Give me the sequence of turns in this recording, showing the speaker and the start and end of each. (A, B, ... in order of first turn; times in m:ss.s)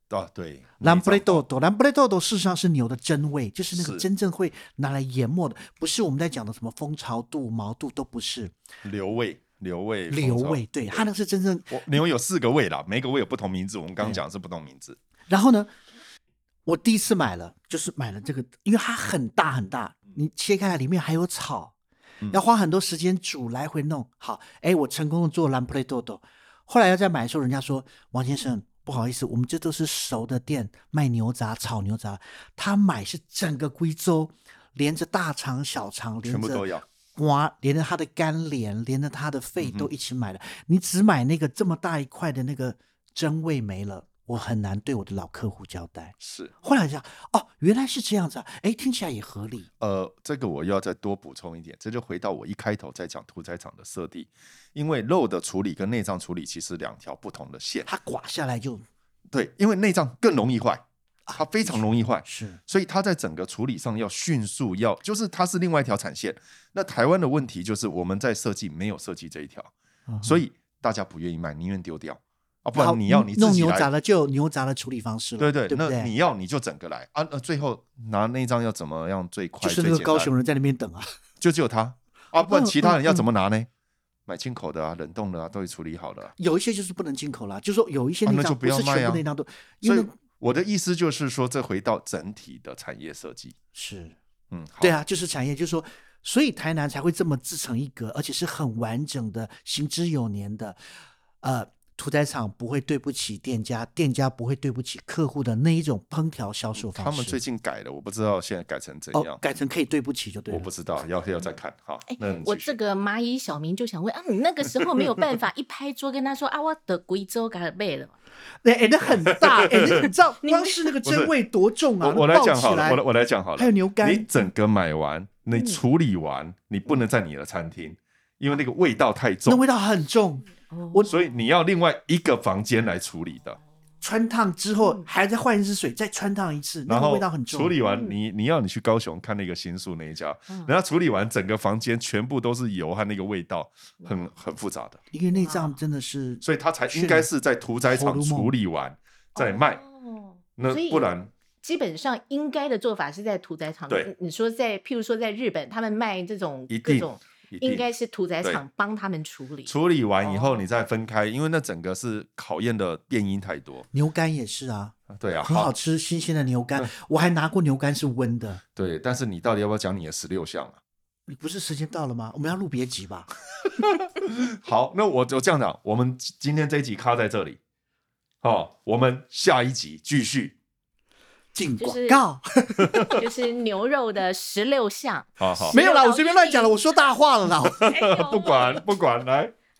0:00.1-0:01.4 A
0:00.8-0:08.5 B
0:03.7-0:04.0 A
0:08.8-0:11.0 A
0:10.1-0:11.8 B
0:11.7-0:15.0 A
0:15.3-0:15.7 B
0:16.6-0:21.7 B
0:22.3-0:49.7 B
0:36.2-0:36.9 A
0:39.6-0:39.9 A
0:46.2-0:46.5 A
0:49.8-0:57.9 A
0:57.8-0:58.8 B
0:59.3-1:00.8 A
1:01.3-1:02.6 B
1:01.3-1:09.7 A
1:10.1-1:10.4 B
1:10.2-1:13.9 A
1:12.7-1:16.1 B
1:15.4-1:20.3 A
1:19.6-1:21.2 B
1:21.4-1:23.7 A
1:22.4-1:23.3 B
1:24.3-1:26.3 A
1:26.4-1:30.1 B
1:28.2-1:29.2 A
1:29.8-1:33.5 A
1:33.7-1:34.2 B
1:34.5-1:35.0 A
1:34.8-1:40.8 B
1:41.4-1:47.4 B
1:46.8-1:49.4 A
1:49.1-1:50.7 B
1:50.5-1:52.8 A
1:52.1-1:58.1 C
1:58.6-2:03.0 B
1:59.4-2:00.1 A
2:00.4-2:00.9 C
2:01.0-2:01.3 A
2:02.0-2:09.6 A
2:03.6-2:04.4 B
2:05.5-2:05.8 C
2:09.5-2:11.1 B
2:10.7-2:11.1 C
2:11.1-2:13.6 A
2:14.0-2:17.8 B
2:16.9-2:25.0 A
2:17.8-2:18.1 C
2:24.0-2:24.3 C
2:25.1-2:27.3 B
2:25.3-2:25.8 C
2:26.4-2:29.8 A
2:27.9-2:28.5 B
2:29.4-2:31.1 C
2:30.6-2:31.3 A
2:31.6-2:40.6 C
2:36.7-2:37.8 A
2:39.6-2:43.9 A
2:43.9-2:48.6 B
2:45.1-2:45.7 A
2:48.8-2:50.8 A
2:51.3-2:53.3 B
2:53.6-2:57.6 A
2:58.4-3:00.5 A
3:01.5-3:03.2 B
3:01.8-3:02.2 C
3:02.8-3:03.2 A
3:03.1-3:06.8 C
3:05.4-3:05.8 A
3:05.7-3:07.8 B
3:07.6-3:09.5 A
3:07.7-3:08.8 C